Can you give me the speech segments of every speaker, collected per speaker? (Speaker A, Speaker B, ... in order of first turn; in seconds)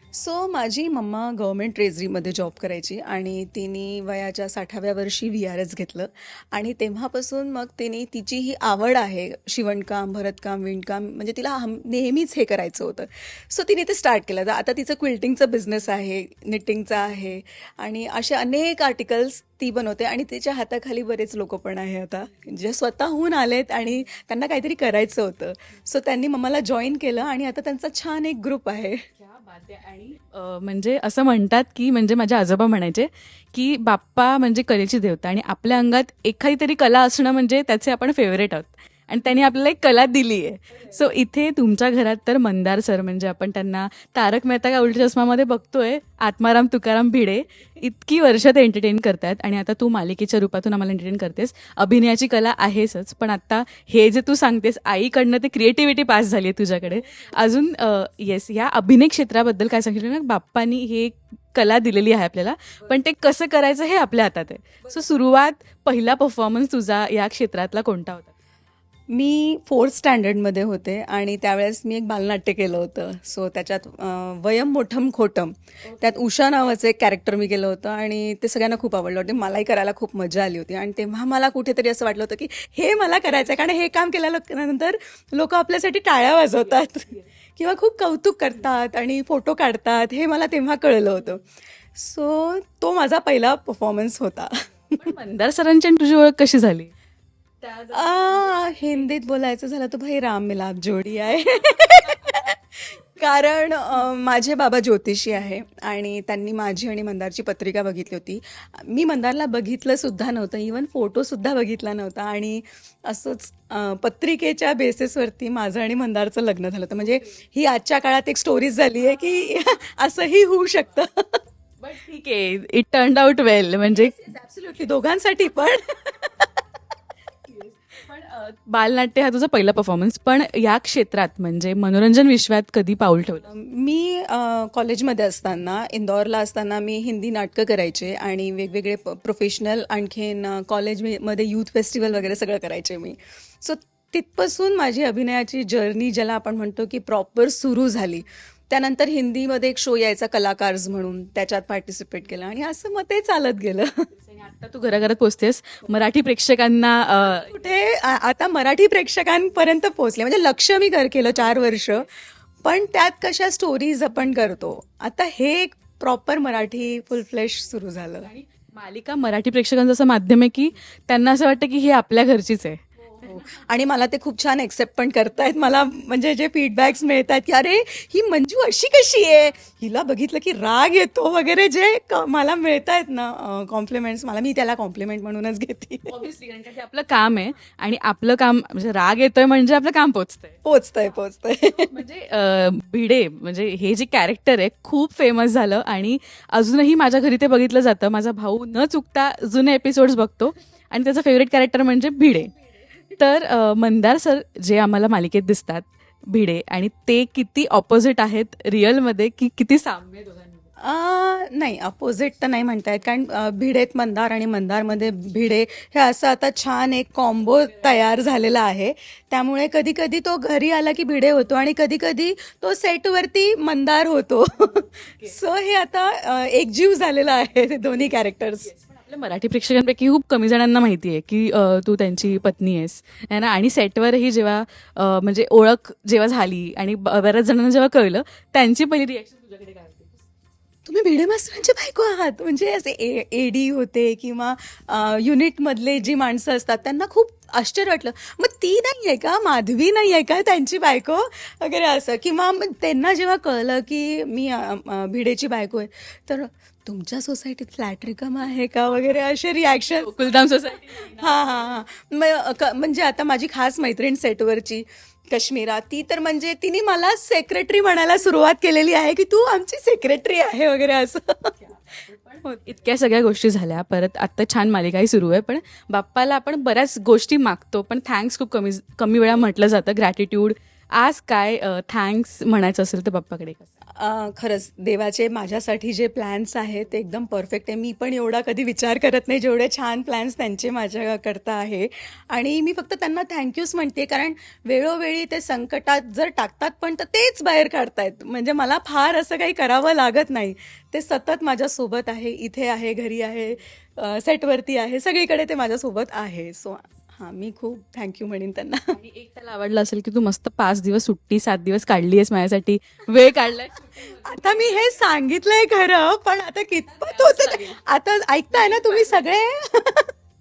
Speaker A: 0.1-29.0, 69.1-95.1, 97.9-121.4, 123.9-126.6, 133.4-154.1, 157.2-162.1, 162.6-168.3, 173.2-186.1, 190.6-191.9, 210.8-228.7, 240.9-260.2, 261.0-271.6, 284.0-308.9, 314.0-320.1
Speaker B: 29.2-68.3, 95.0-96.9, 97.6-98.9, 121.8-124.1, 127.5-133.4, 154.1-157.6, 161.4-162.0, 168.2-173.4, 186.1-190.6, 191.7-202.5, 203.2-210.7, 224.6-225.3, 228.6-240.2, 259.9-261.4, 271.9-283.7, 308.9-315.0, 316.9-317.8, 318.5-319.4